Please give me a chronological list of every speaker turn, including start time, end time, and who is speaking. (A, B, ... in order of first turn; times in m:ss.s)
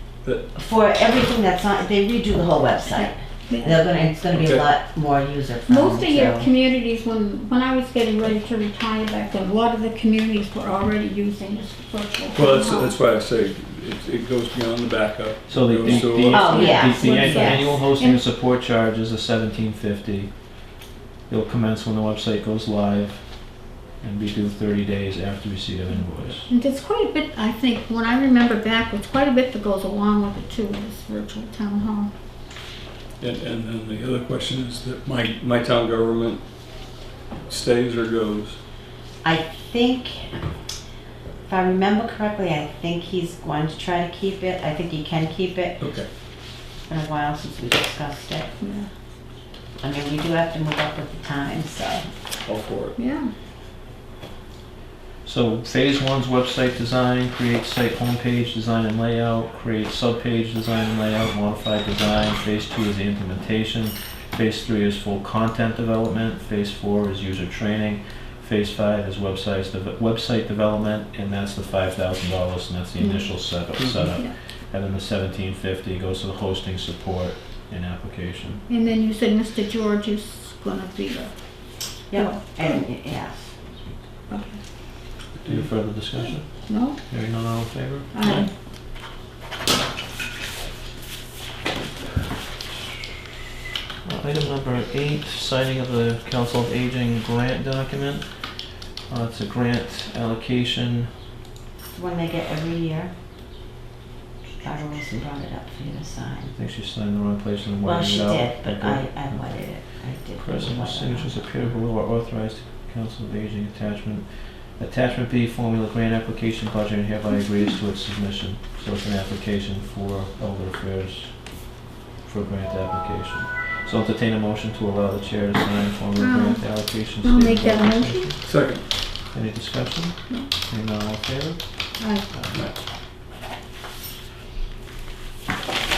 0:00.5-0:06.5 A
0:02.9-0:03.8 B
0:04.3-0:04.7 C
0:05.7-0:12.9 B
0:12.3-0:16.6 C
0:15.5-0:20.6 D
0:15.8-0:17.8 A
0:16.4-0:18.2 B
0:21.3-0:26.5 D
0:26.5-0:32.1 B
0:33.2-0:36.4 C
0:37.5-0:38.6 C
0:39.2-0:40.4 A
0:41.4-0:46.0 A
0:45.8-0:46.1 C
0:46.8-0:48.6 A
0:48.6-0:48.9 B
0:49.8-0:52.1 A
0:52.4-0:53.0 C
0:53.0-0:53.3 B
0:55.2-1:18.6 D
1:13.0-1:13.4 B
1:13.8-1:14.1 C
1:18.7-1:22.8 B
1:22.1-1:23.5 A
1:24.3-1:24.6 B
1:25.4-1:28.4 D
1:26.7-1:27.0 B
1:28.1-1:28.5 B
1:34.0-1:41.1 D
1:41.9-1:43.1 A
1:44.6-1:46.5 A
1:46.5-2:12.6 D
1:47.8-1:51.4 A
2:06.2-2:08.4 B
2:08.4-2:08.8 C
2:12.0-2:12.3 B